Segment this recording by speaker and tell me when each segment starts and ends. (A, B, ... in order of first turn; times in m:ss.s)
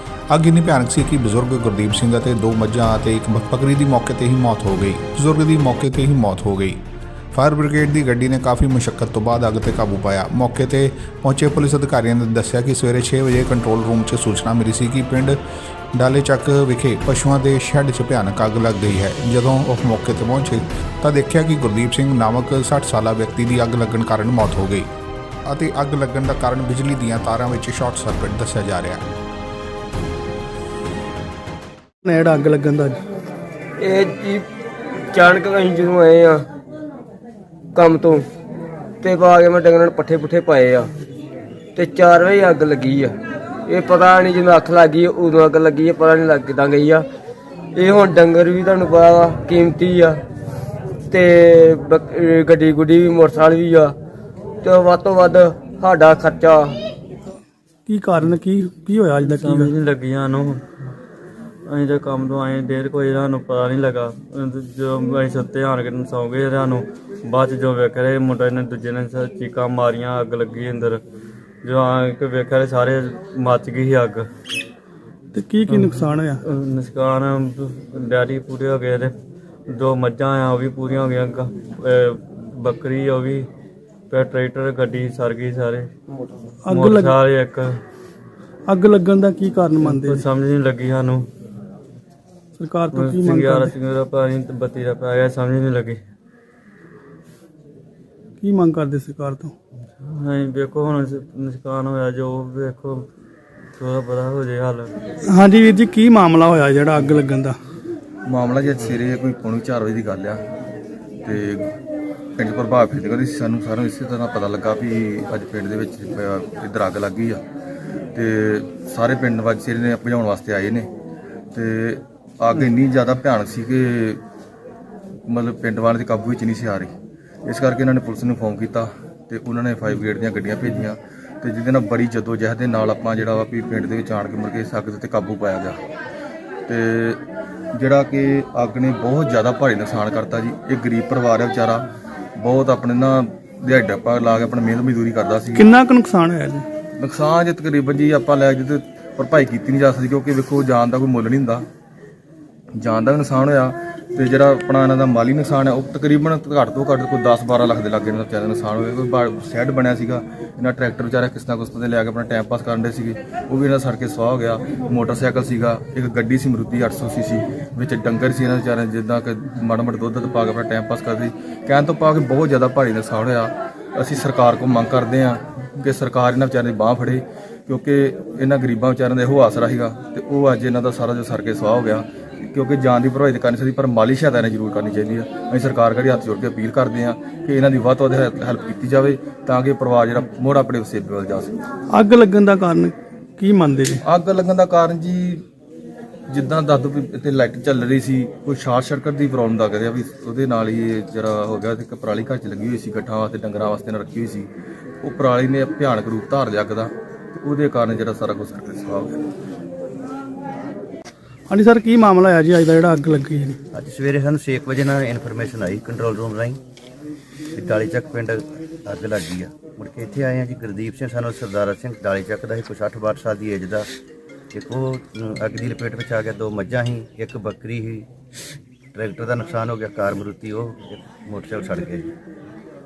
0:00.3-0:06.8 A
0:07.3-0:15.4 A
0:15.9-0:24.9 A
0:25.4-0:29.0 A
0:32.0-0:33.0 B
0:33.8-0:34.4 C
0:35.1-0:36.4 C
0:37.7-0:38.2 C
0:39.0-0:40.9 C
0:41.8-0:47.1 C
0:47.7-0:50.2 C
0:51.1-0:53.9 C
0:54.6-0:56.8 C
0:57.9-0:59.7 B
0:59.2-1:00.6 D
1:01.7-1:11.0 D
1:11.6-1:14.3 D
1:15.3-1:16.4 B
1:15.7-1:19.1 D
1:19.7-1:23.5 D
1:24.1-1:25.9 D
1:26.6-1:27.2 B
1:26.7-1:27.7 D
1:28.7-1:30.2 B
1:29.8-1:31.2 D
1:32.6-1:33.7 B
1:32.9-1:36.0 D
1:38.4-1:39.5 B
1:40.0-1:43.1 D
1:43.8-1:44.9 D
1:45.3-1:47.6 B
1:48.3-1:50.4 E
1:51.2-1:51.7 E
1:52.4-1:57.4 E
1:58.1-2:00.9 E
2:01.5-2:04.2 E
2:05.3-2:06.9 E
2:07.4-2:15.8 E
2:16.7-2:17.2 E
2:17.7-2:21.8 E
2:22.4-2:25.7 E
2:25.5-2:26.6 B
2:27.0-2:31.6 E
2:32.8-3:11.6 E
3:11.9-3:14.0 B
3:14.1-3:15.4 E
3:16.3-3:24.5 E
3:25.0-3:29.2 E
3:31.5-3:33.6 B
3:33.7-3:36.6 F
3:37.5-3:43.8 F
3:44.5-3:48.1 F
3:48.9-3:52.1 F